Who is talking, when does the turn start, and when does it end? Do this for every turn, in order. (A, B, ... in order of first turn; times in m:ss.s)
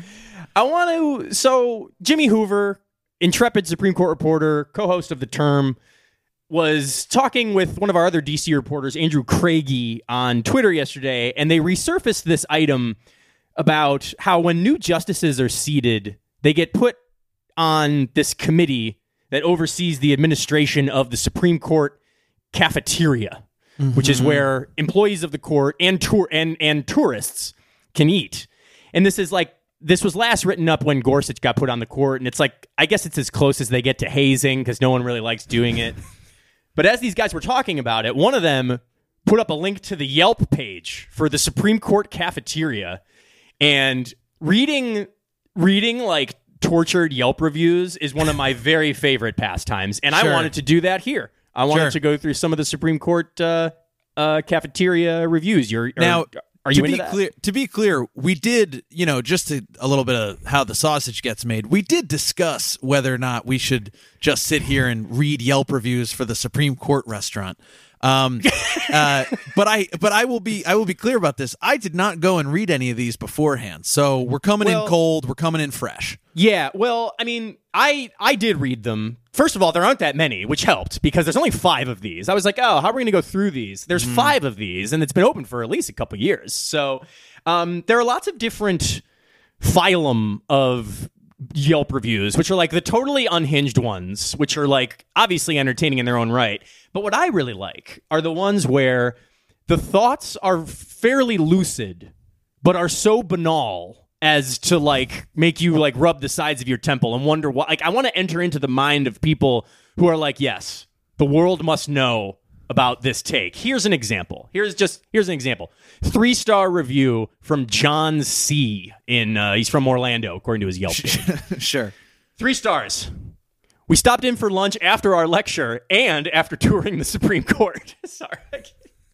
0:00.6-0:05.8 A
0:06.5-0:13.0 A
0:13.6-0:17.0 A
0:17.6-0:22.0 A
0:22.5-0:23.4 A
0:23.8-0:24.5 B
0:24.0-0:36.0 A
0:36.8-0:43.0 A
0:43.6-0:57.2 A
0:50.1-0:50.5 B
0:51.7-0:52.0 B
0:56.0-1:16.2 B
1:08.5-1:09.2 A
1:14.6-1:14.9 A
1:16.3-1:29.0 A
1:24.0-1:24.4 B
1:29.6-1:39.2 A
1:39.7-1:42.1 A
1:42.6-2:01.3 A
2:00.9-2:01.9 B
2:02.4-2:03.3 A
2:03.9-2:08.7 A